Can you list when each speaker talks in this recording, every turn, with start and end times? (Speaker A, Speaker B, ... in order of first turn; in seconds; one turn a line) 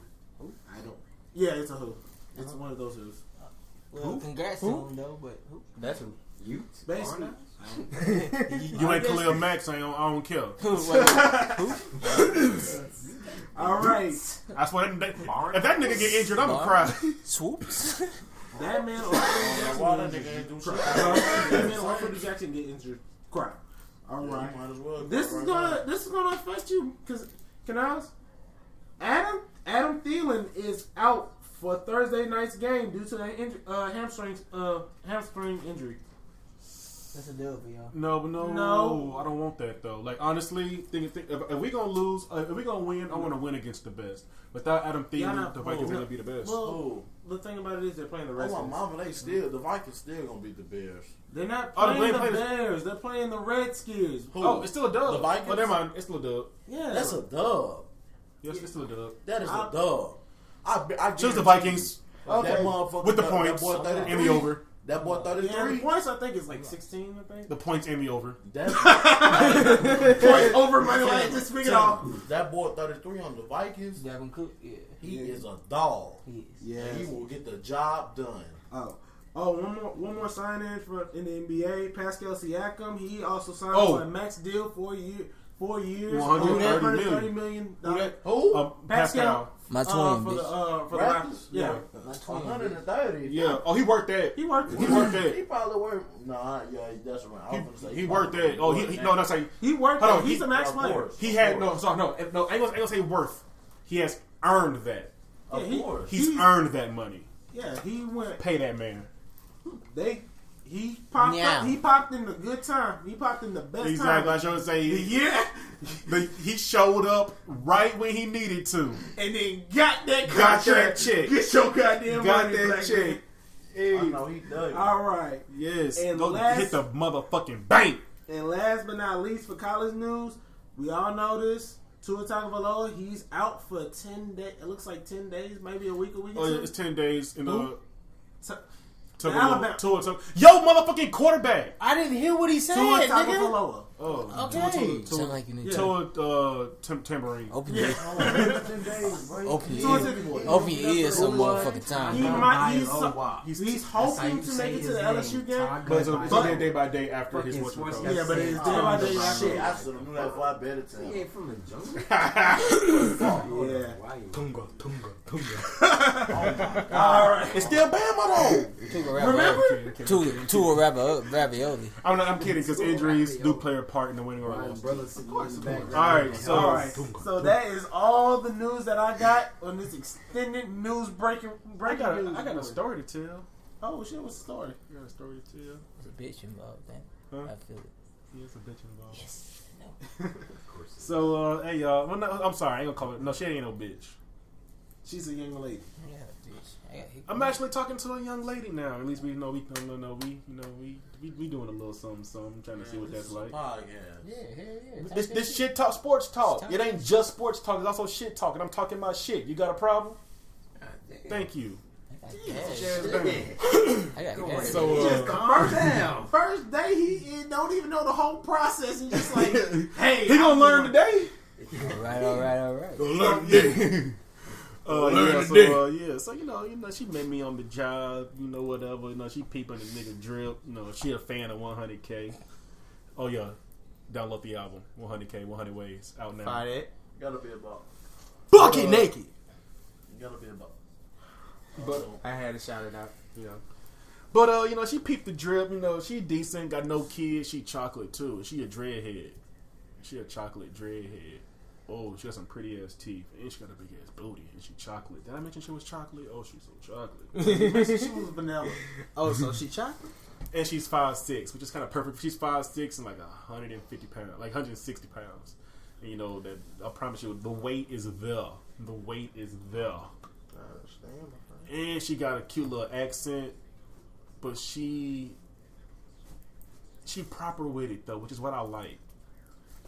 Speaker A: 0.7-3.2
Speaker B: 3.4-5.8
Speaker C: 4.0-4.8
Speaker D: 5.8-8.8
Speaker A: 6.8-9.5
Speaker C: 8.7-11.7
Speaker B: 10.6-11.9
Speaker A: 11.3-11.5
Speaker D: 12.2-13.8
Speaker A: 13.6-14.2
Speaker C: 14.5-17.2
Speaker A: 15.4-16.0
Speaker B: 16.3-18.1
Speaker A: 18.5-28.1
Speaker E: 19.2-22.2
Speaker E: 24.2-25.8
Speaker A: 29.0-36.0
Speaker B: 37.1-37.9
Speaker C: 37.9-46.6
Speaker A: 38.4-39.3
Speaker A: 45.1-48.8
Speaker E: 45.7-47.1
Speaker E: 48.4-51.1
Speaker A: 51.3-54.4
Speaker C: 51.7-52.6
Speaker E: 54.3-55.8
Speaker C: 54.4-56.5
Speaker A: 56.7-57.2
Speaker E: 56.9-57.9
Speaker C: 58.4-59.2
Speaker E: 59.2-65.9
Speaker A: 59.4-59.8
Speaker C: 61.2-62.0
Speaker A: 62.3-62.8
Speaker C: 62.6-64.6
Speaker A: 64.1-64.5
Speaker A: 65.3-67.5
Speaker C: 67.5-68.4
Speaker E: 68.4-74.0
Speaker A: 68.7-72.2
Speaker B: 74.0-75.0
Speaker E: 75.0-76.2
Speaker A: 75.0-75.4
Speaker B: 76.2-76.6
Speaker A: 76.6-77.1
Speaker E: 76.8-78.6
Speaker A: 78.7-91.8
Speaker C: 83.7-84.1
Speaker C: 86.1-87.4
Speaker B: 86.3-86.9
Speaker E: 88.2-88.7
Speaker C: 88.3-89.5
Speaker B: 89.7-90.6
Speaker E: 90.9-93.6
Speaker C: 93.2-95.4
Speaker A: 94.3-95.2
Speaker E: 94.7-99.3
Speaker C: 97.5-100.6
Speaker A: 99.6-101.1
Speaker E: 100.4-101.8
Speaker C: 101.2-105.1
Speaker E: 105.5-106.2
Speaker A: 105.5-106.5
Speaker C: 106.1-107.3
Speaker A: 107.5-108.4
Speaker C: 108.4-109.1
Speaker A: 109.7-116.2
Speaker B: 111.2-111.8
Speaker C: 113.8-115.2
Speaker C: 116.1-119.0
Speaker A: 119.2-123.2
Speaker C: 120.3-121.4
Speaker C: 122.1-123.2
Speaker E: 123.7-125.0
Speaker A: 124.7-126.8
Speaker C: 125.5-128.0
Speaker A: 128.3-136.7
Speaker C: 136.3-137.8
Speaker A: 137.4-137.7
Speaker C: 139.2-141.8
Speaker A: 139.2-139.8
Speaker F: 141.8-143.6
Speaker A: 142.7-143.9
Speaker C: 144.0-147.6
Speaker B: 144.3-146.0
Speaker F: 144.3-145.1
Speaker A: 145.6-146.0
Speaker B: 147.5-148.6
Speaker A: 147.7-148.8
Speaker E: 147.8-150.8
Speaker B: 149.4-152.5
Speaker A: 149.7-156.7
Speaker D: 151.1-160.3
Speaker C: 153.4-153.8
Speaker C: 155.8-158.5
Speaker A: 158.0-159.7
Speaker E: 158.6-161.2
Speaker D: 160.9-164.5
Speaker C: 162.0-163.2
Speaker E: 162.9-163.5
Speaker A: 163.4-164.0
Speaker F: 164.3-165.8
Speaker A: 165.7-167.8
Speaker E: 166.2-167.9
Speaker C: 166.9-171.0
Speaker B: 168.8-171.9
Speaker A: 169.1-169.9
Speaker C: 172.0-177.2
Speaker D: 172.3-173.7
Speaker D: 174.4-177.2
Speaker F: 175.5-176.8
Speaker A: 176.4-182.8
Speaker C: 181.8-183.5
Speaker A: 183.8-184.8
Speaker C: 184.9-185.8
Speaker B: 186.0-187.9
Speaker C: 188.3-189.2
Speaker B: 189.1-189.9
Speaker D: 190.5-191.3
Speaker C: 191.0-194.2
Speaker A: 195.0-195.9
Speaker B: 196.0-197.6
Speaker C: 197.3-203.6
Speaker E: 202.8-204.2
Speaker B: 204.2-205.7
Speaker C: 205.0-210.2
Speaker B: 206.5-206.9
Speaker D: 210.8-211.5
Speaker C: 211.3-211.8
Speaker B: 212.1-213.3
Speaker A: 212.3-213.1
Speaker D: 212.5-216.3
Speaker C: 212.9-214.1
Speaker B: 214.1-215.1
Speaker C: 214.6-215.9
Speaker A: 214.7-221.0
Speaker C: 219.2-221.3
Speaker D: 221.6-222.5
Speaker B: 221.8-223.1
Speaker F: 223.0-224.1
Speaker A: 223.2-223.9
Speaker C: 224.8-232.4
Speaker F: 224.9-225.6
Speaker C: 233.2-233.6
Speaker C: 234.1-236.7
Speaker F: 236.4-236.9
Speaker E: 237.2-237.8
Speaker F: 238.5-239.3
Speaker C: 238.5-239.1
Speaker E: 240.1-240.7
Speaker E: 241.8-242.2
Speaker F: 241.8-243.6
Speaker C: 244.3-249.4
Speaker C: 250.0-257.4
Speaker F: 257.4-258.2
Speaker A: 257.4-258.8
Speaker F: 259.1-260.1
Speaker C: 260.5-270.1
Speaker F: 270.5-271.7
Speaker C: 271.7-273.6
Speaker C: 274.4-275.4
Speaker C: 277.1-279.0